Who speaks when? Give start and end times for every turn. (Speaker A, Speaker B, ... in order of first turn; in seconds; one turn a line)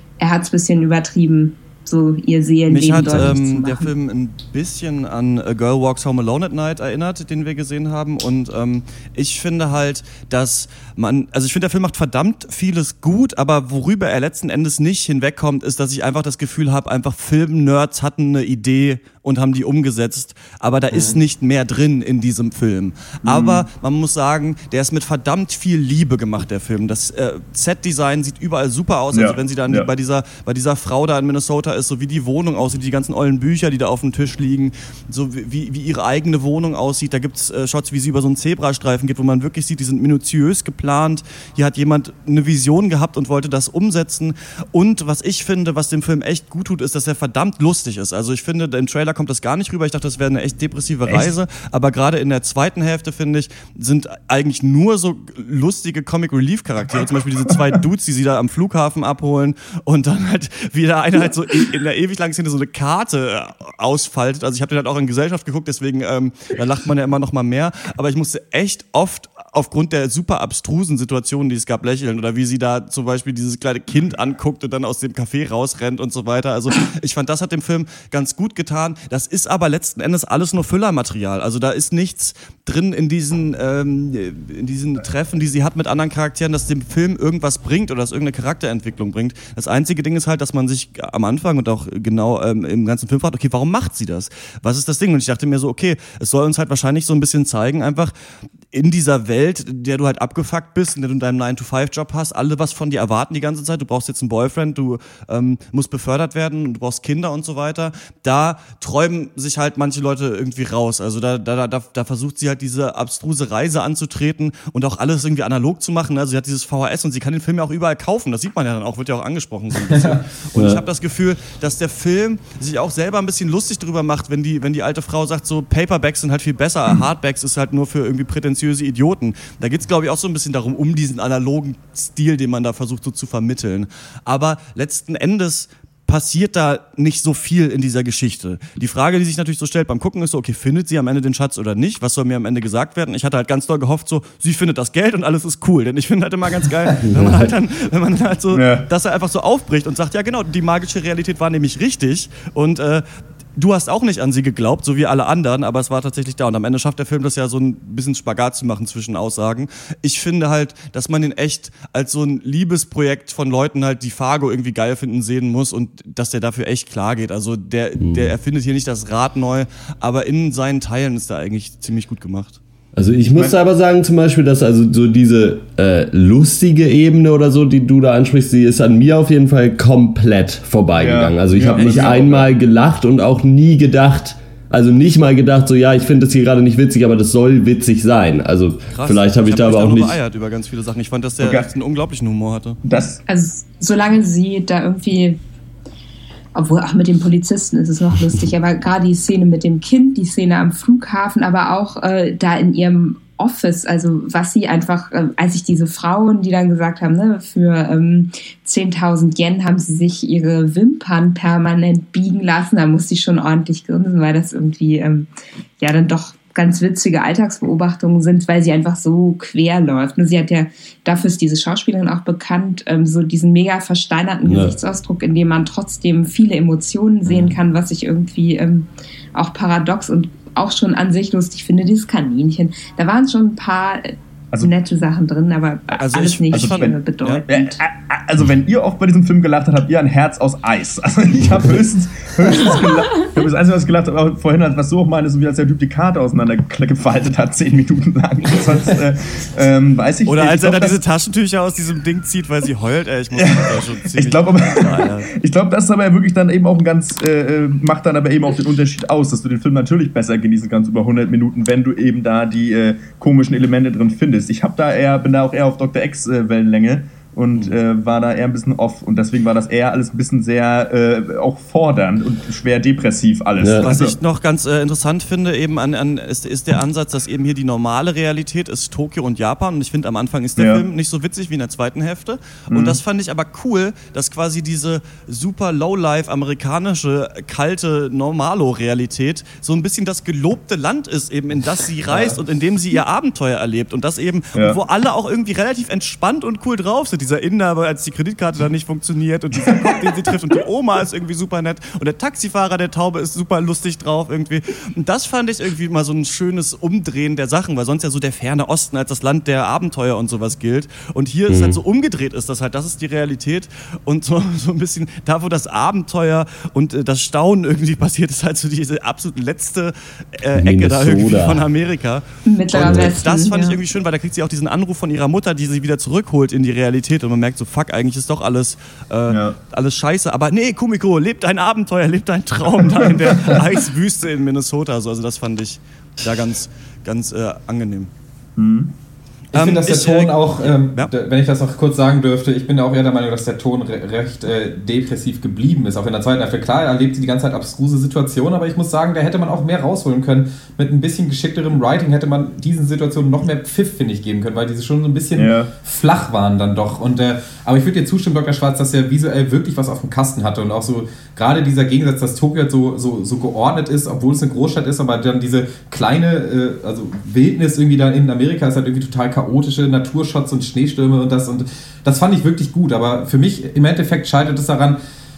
Speaker A: 0.2-3.9
Speaker B: 2.7-98.1
Speaker C: 3.0-3.3
Speaker D: 23.2-23.7
Speaker D: 29.1-29.9
Speaker D: 51.1-51.3
Speaker B: 98.7-153.1
Speaker E: 119.9-120.2
Speaker C: 120.5-120.8
Speaker C: 147.1-147.5
Speaker D: 148.5-148.9
Speaker B: 153.6-172.6
Speaker C: 168.0-168.3
Speaker C: 172.9-190.2
Speaker D: 181.0-182.5
Speaker B: 181.7-182.4
Speaker B: 188.9-192.8
Speaker D: 191.4-191.7
Speaker D: 192.8-193.2
Speaker A: 193.3-195.4
Speaker A: 196.6-215.3
Speaker A: 215.8-237.8
Speaker C: 224.4-224.8
Speaker B: 236.0-237.4
Speaker D: 236.5-251.0
Speaker B: 250.2-255.3
Speaker D: 253.3-274.2
Speaker C: 273.6-273.9
Speaker B: 273.8-338.1
Speaker D: 280.6-280.9
Speaker D: 282.7-283.0
Speaker E: 292.1-292.4
Speaker D: 294.6-294.8
Speaker D: 299.7-300.1
Speaker C: 311.5-311.8
Speaker C: 320.6-321.7
Speaker A: 322.4-323.8
Speaker C: 322.8-323.1
Speaker D: 329.3-329.6
Speaker D: 338.6-338.9
Speaker B: 339.5-341.1
Speaker E: 339.5-375.0
Speaker D: 355.4-355.7